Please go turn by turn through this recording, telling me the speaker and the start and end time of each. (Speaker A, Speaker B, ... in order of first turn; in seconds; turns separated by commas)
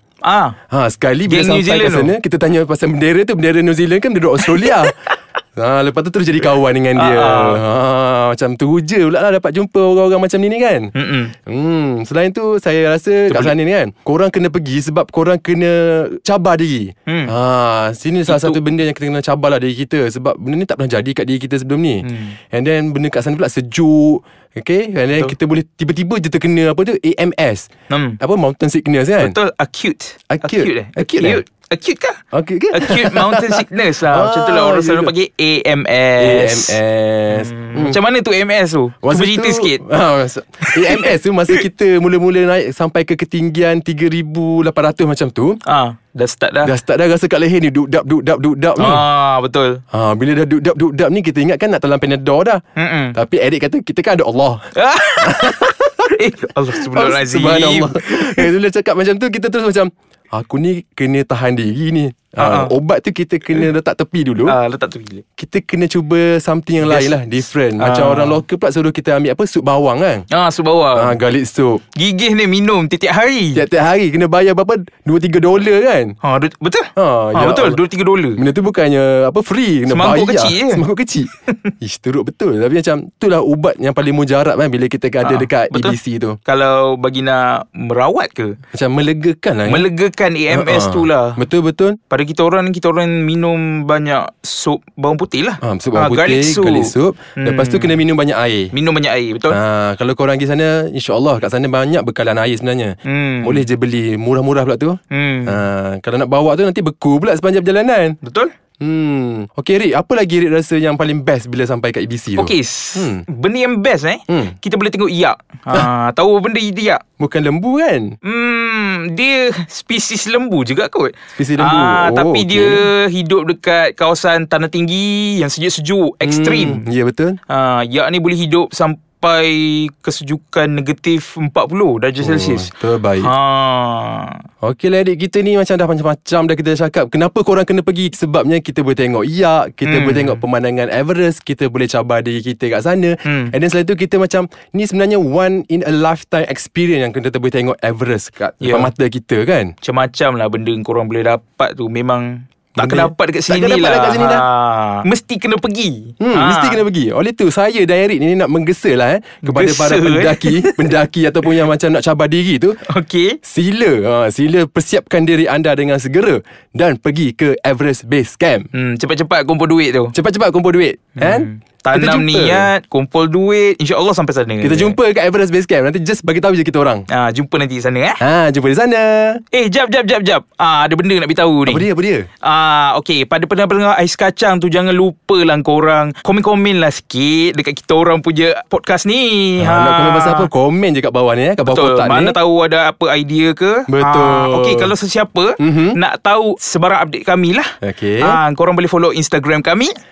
Speaker A: 0.2-0.6, Speaker B: 0.7-10.9, Speaker A: 1.3-2.1, Speaker A: 7.0-7.6, Speaker A: 10.9-11.3, Speaker B: 11.4-27.7, Speaker A: 13.3-13.6, Speaker A: 17.1-17.3, Speaker A: 18.3-18.6, Speaker A: 22.0-22.4, Speaker A: 27.9-28.2, Speaker B: 28.2-29.4, Speaker A: 29.2-32.2, Speaker B: 30.3-31.4, Speaker B: 32.3-35.1, Speaker A: 32.7-36.8, Speaker B: 36.2-38.0, Speaker A: 37.3-39.8, Speaker B: 39.0-45.6, Speaker A: 40.6-41.6, Speaker A: 45.7-46.7, Speaker B: 46.6-49.0, Speaker A: 48.8-49.8, Speaker B: 49.9-52.6, Speaker A: 52.8-53.2, Speaker B: 53.1-54.6, Speaker A: 54.8-55.6, Speaker B: 55.2-56.1, Speaker A: 56.1-58.5, Speaker B: 56.7-64.6, Speaker A: 62.4-62.7, Speaker A: 64.5-65.2, Speaker B: 65.4-70.2, Speaker A: 66.8-68.4, Speaker A: 70.3-71.2, Speaker B: 71.0-71.8, Speaker A: 72.0-73.6, Speaker B: 73.5-76.1, Speaker A: 76.2-78.4, Speaker B: 77.0-77.8, Speaker B: 78.4-86.4, Speaker A: 79.9-80.8, Speaker A: 85.2-88.6, Speaker B: 88.7-89.9, Speaker A: 89.7-91.4, Speaker B: 90.5-92.0, Speaker A: 92.1-98.0, Speaker B: 95.6-98.7, Speaker A: 98.7-99.6, Speaker B: 99.5-108.2, Speaker A: 103.1-103.6, Speaker A: 105.1-105.6, Speaker A: 108.2-108.5, Speaker B: 108.8-113.2, Speaker A: 112.3-117.0, Speaker B: 114.3-114.5, Speaker B: 117.2-118.2, Speaker A: 118.2-126.8, Speaker B: 121.4-122.8, Speaker B: 126.2-127.4, Speaker A: 127.5-132.7, Speaker B: 132.2-133.3, Speaker A: 133.2-134.4, Speaker B: 134.6-149.7, Speaker A: 139.8-140.4, Speaker A: 143.2-143.5, Speaker A: 148.6-148.9, Speaker A: 149.8-156.8, Speaker B: 152.8-154.4, Speaker B: 156.2-162.8, Speaker A: 159.4-160.9, Speaker A: 162.9-163.4, Speaker B: 163.4-168.7, Speaker A: 168.7-170.1, Speaker B: 170.1-172.7, Speaker A: 171.2-175.0, Speaker B: 174.6-177.1, Speaker A: 177.1-178.2, Speaker B: 178.2-179.4, Speaker A: 179.5-181.9, Speaker B: 181.7-182.3, Speaker A: 182.4-190.5, Speaker B: 189.6-192.4, Speaker A: 191.6-199.9, Speaker B: 193.9-194.9, Speaker B: 195.6-196.0, Speaker B: 197.8-198.4